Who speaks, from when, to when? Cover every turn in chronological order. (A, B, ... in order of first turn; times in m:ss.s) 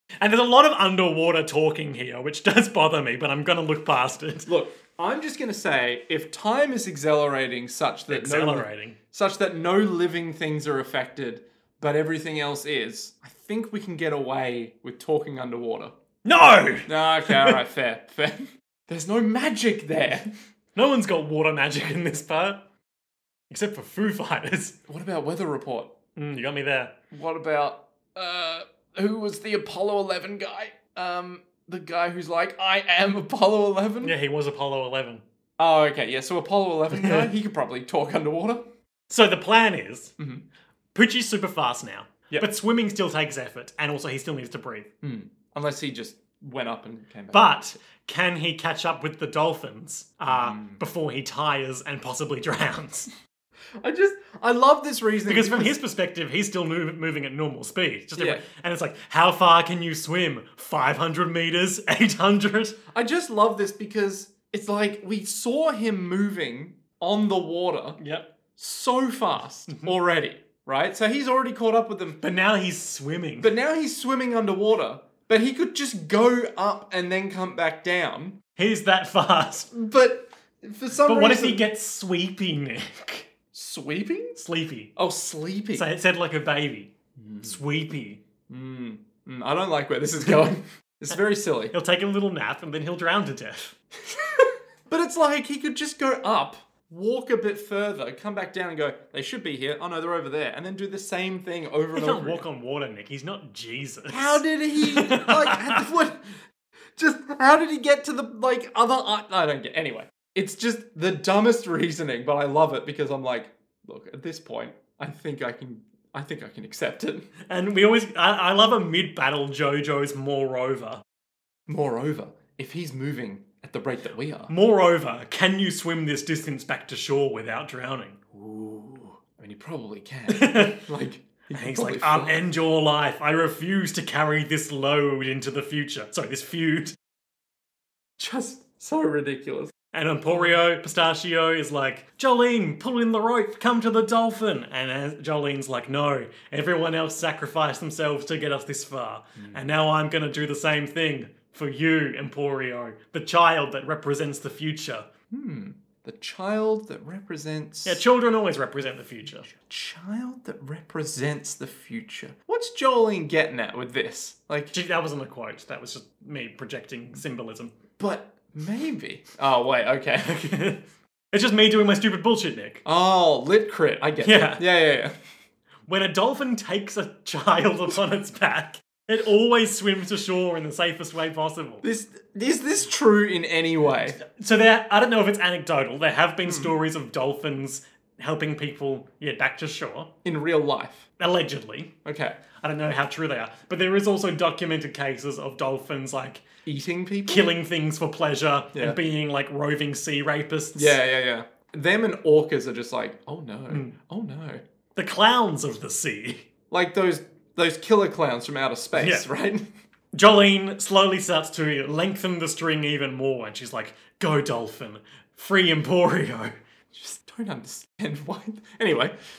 0:00.2-0:04.5 A
0:04.5-0:16.0 B
0:08.1-0:09.0 A
0:16.2-0:17.6 A
0:16.9-0:20.3 B
0:20.8-0:22.6 A
0:23.5-0:24.8 A
0:24.9-0:25.9 B
0:26.2-0:26.9 A
0:27.1-0:34.2 B
0:34.0-0:35.2 A
0:35.6-0:38.6 B
0:36.9-0:37.3 A
0:39.1-0:40.1 A
0:40.2-0:40.4 B
0:40.9-0:44.9 A
0:45.0-0:47.6 B
0:47.3-0:53.1 A
0:50.3-0:50.8 B
0:53.8-0:55.8 B
0:55.3-1:02.8 A
0:58.2-0:58.4 B
1:02.9-1:08.0 B
1:08.0-1:08.3 A
1:08.6-1:12.2 B
1:12.2-1:13.5 A
1:13.4-1:18.4 B
1:18.6-1:19.7 A
1:19.7-1:21.6 B
1:21.0-1:23.3 A
1:23.5-1:24.4 B
1:24.4-1:24.9 A
1:25.0-1:25.9 B
1:25.8-1:28.2 A
1:27.2-1:27.6 B
1:28.5-1:31.7 B
1:31.7-1:33.8 A
1:34.1-1:42.4 B
1:41.9-1:45.9 A
1:44.1-1:46.3 B
1:47.0-1:57.3 B
1:57.5-2:01.0 A
2:01.7-2:04.5 B
2:04.5-2:08.2 A
2:08.3-2:12.4 B
2:10.3-2:10.9 A
2:11.5-2:17.0 A
2:18.2-2:19.7 B
2:19.9-2:35.1 A
2:20.3-2:20.6 B
2:29.4-2:29.7 B
2:35.3-2:38.0 B
2:37.8-2:39.5 A
2:39.2-2:44.7 B
2:44.7-2:47.8 A
2:48.0-2:50.4 B
2:50.2-2:52.8 A
2:52.8-2:55.2 B
2:54.2-2:54.6 A
2:55.9-3:01.8 A
3:01.8-3:04.2 B
3:04.2-3:10.1 A
3:06.4-3:06.7 B
3:10.2-3:11.1 B
3:11.2-3:11.9 A
3:12.0-3:12.4 B
3:12.6-3:16.5 A
3:16.6-3:17.5 B
3:17.3-3:21.0 A
3:20.8-3:24.6 B
3:23.7-3:24.0 A
3:25.0-3:26.5 A
3:26.7-3:29.7 B
3:29.0-3:29.3 A
3:30.2-3:36.6 A
3:36.9-3:39.2 B